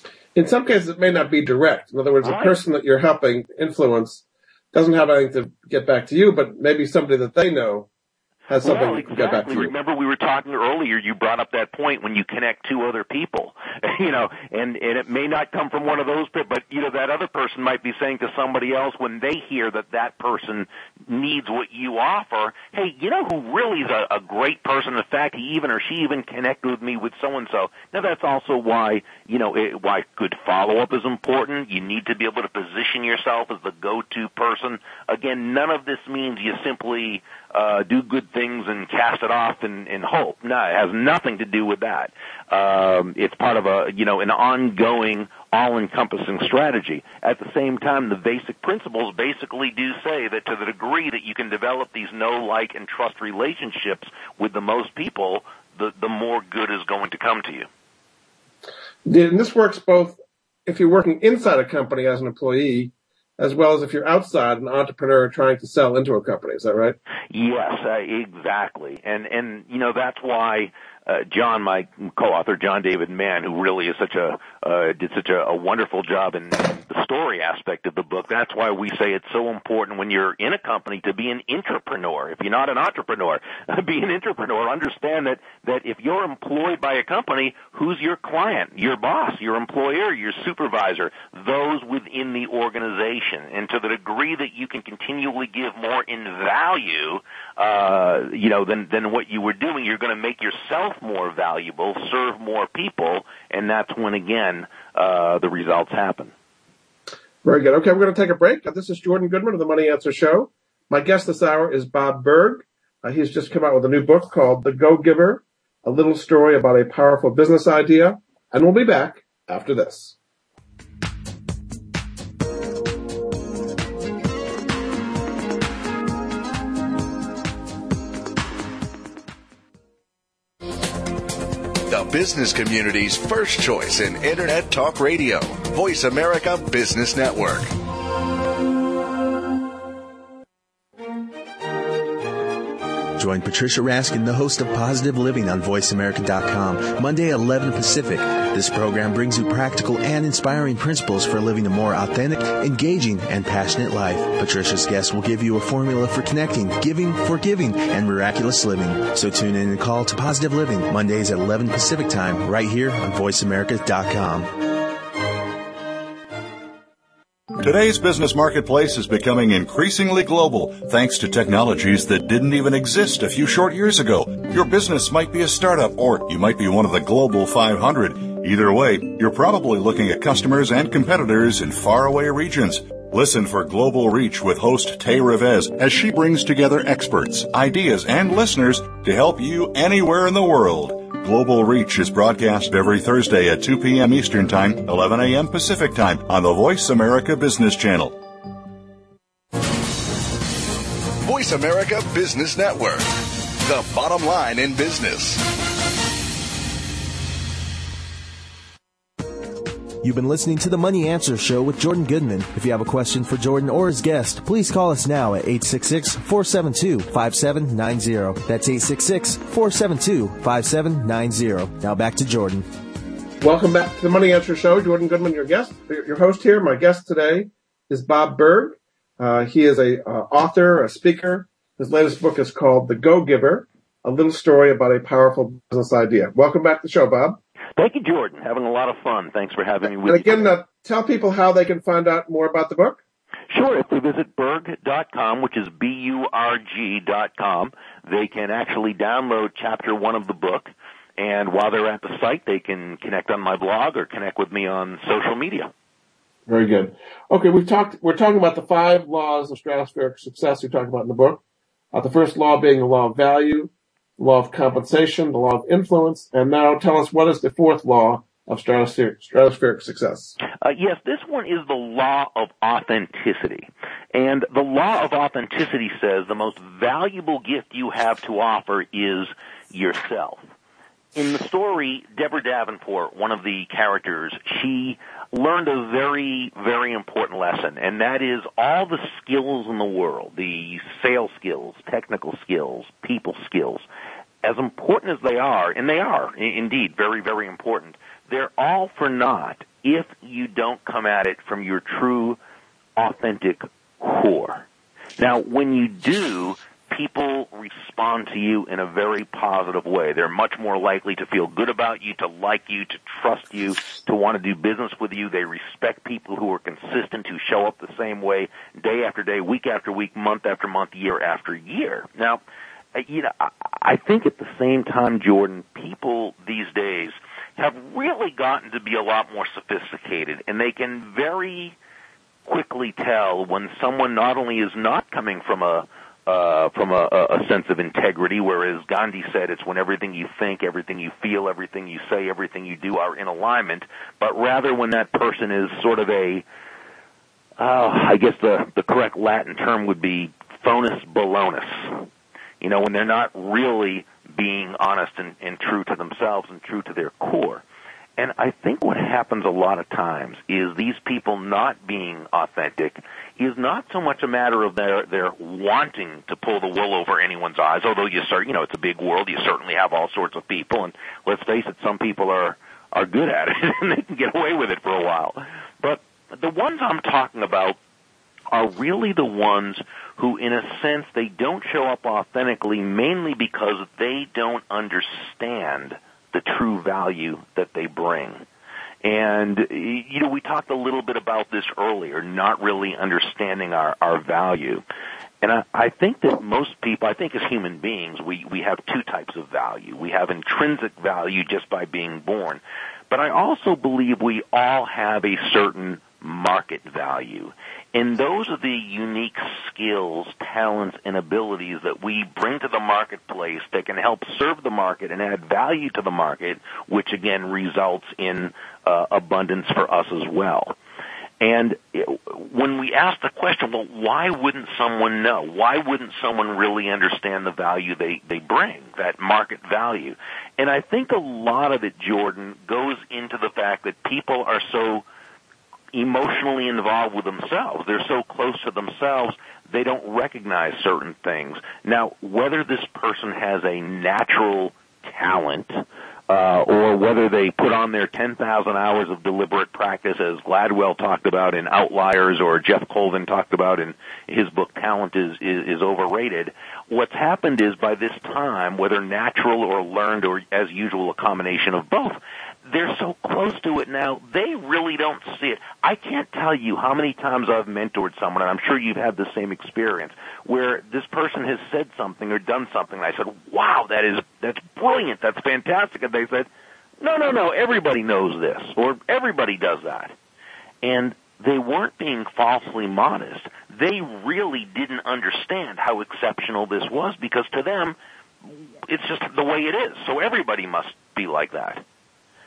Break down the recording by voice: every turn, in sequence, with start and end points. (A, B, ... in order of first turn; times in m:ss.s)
0:00.4-0:07.9 A
0:02.2-0:02.6 B
0:08.5-0:09.7 A
0:08.6-0:57.7 B
0:59.1-1:07.0 A
1:07.3-1:46.3 B
1:47.4-2:00.2 A
2:11.9-2:17.7 C
2:23.2-2:44.5 D
2:47.6-3:18.2 E
3:21.2-3:23.1 C
3:23.6-3:25.4 C
3:30.0-3:42.7 D
3:43.4-3:57.4 A
3:57.8-4:00.5 B
4:00.0-4:03.0 A
4:03.5-4:15.7 B
4:16.5-4:21.4 A
4:21.9-4:30.4 A
4:30.6-4:40.4 B
4:41.2-4:53.8 B
4:54.4-5:02.4 B
5:03.0-5:04.6 B
5:05.2-5:22.4 B
5:23.0-5:31.8 B
5:32.5-5:46.4 B
5:47.6-5:52.1 B
5:52.6-5:57.6 B
5:58.2-6:17.8 B
6:18.5-6:28.4 B
6:29.0-6:34.8 B
6:35.4-7:00.8 B
7:01.4-7:15.0 B
7:15.9-7:56.5 B
7:57.0-8:00.1 B
8:00.8-8:08.0 B
8:08.5-8:11.8 B